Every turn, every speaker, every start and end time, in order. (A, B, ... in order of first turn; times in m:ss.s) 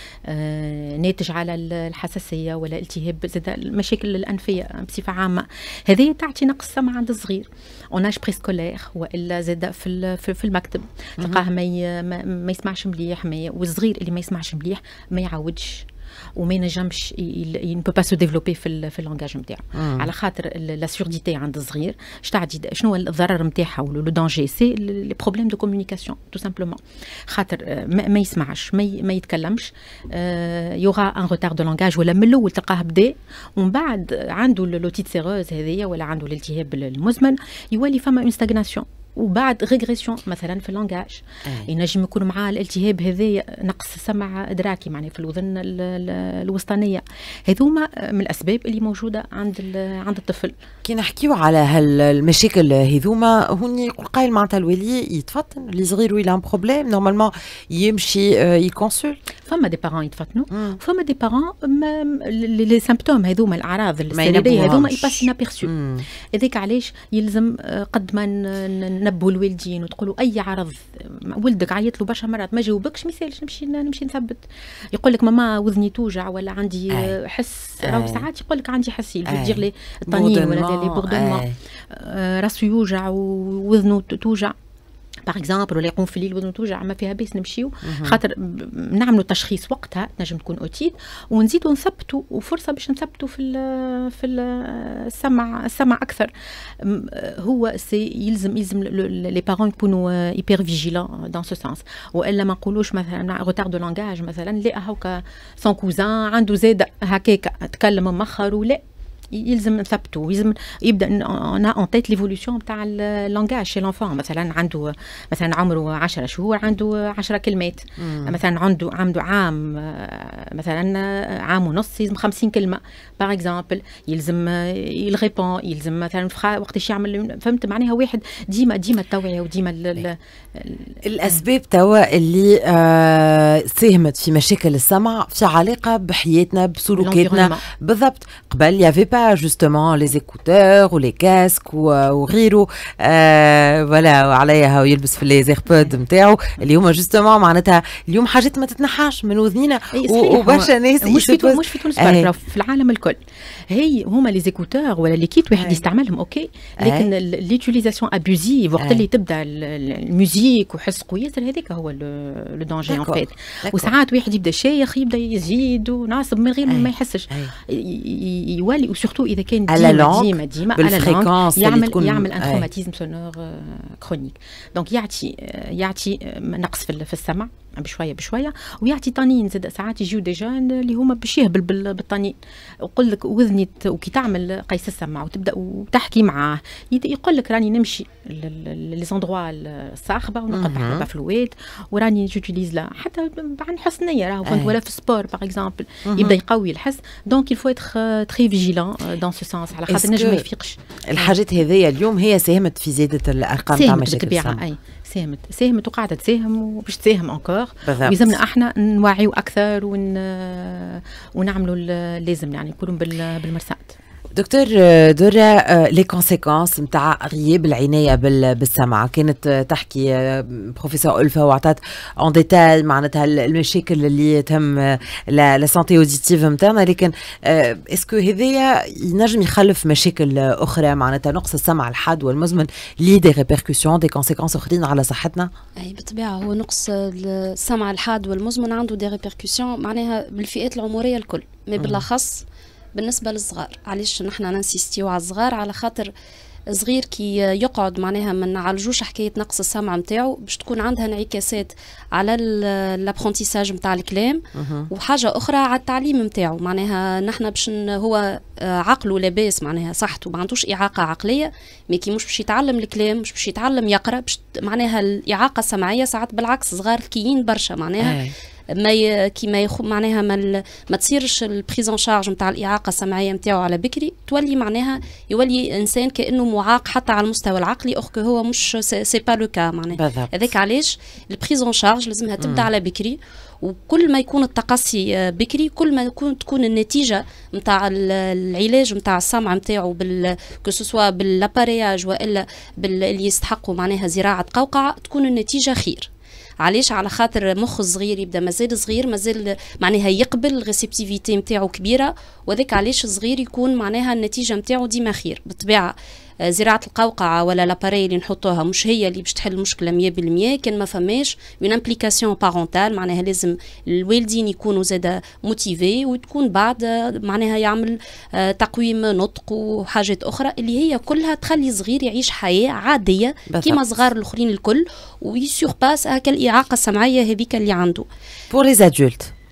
0:00.2-0:50.5 A
0:19.7-0:20.1 B
0:50.8-0:59.2 B
0:59.5-1:05.7 A
1:00.5-1:00.8 B
1:04.1-1:06.0 B
1:06.3-1:14.4 A
1:14.9-1:24.5 A
1:17.8-1:18.2 B
1:19.2-1:21.6 B
1:25.3-2:11.4 A
1:27.8-1:28.2 B
1:58.0-1:58.3 B
2:11.0-2:32.3 B
2:17.0-2:17.6 A
2:29.9-3:21.3 A
2:35.5-2:35.8 B
2:36.8-2:37.1 B
2:38.8-2:39.0 B
2:42.9-2:43.9 B
2:46.7-2:47.5 B
2:49.7-2:52.6 B
3:10.5-3:11.0 B
3:14.4-3:14.7 B
3:16.0-3:16.4 B
3:19.9-3:20.4 B
3:21.1-3:24.6 B
3:23.7-3:33.9 A
3:27.8-3:28.3 B
3:34.3-3:55.5 B
3:55.8-4:02.4 C
4:01.8-4:02.0 B
4:02.9-4:06.1 C
4:06.7-4:28.2 C
4:14.5-4:14.9 B
4:28.0-4:28.3 B
4:28.7-4:56.1 C
4:39.9-4:40.5 B
4:42.4-4:42.7 B
4:56.6-5:28.0 C
5:23.5-5:23.8 B
5:28.5-5:29.3 B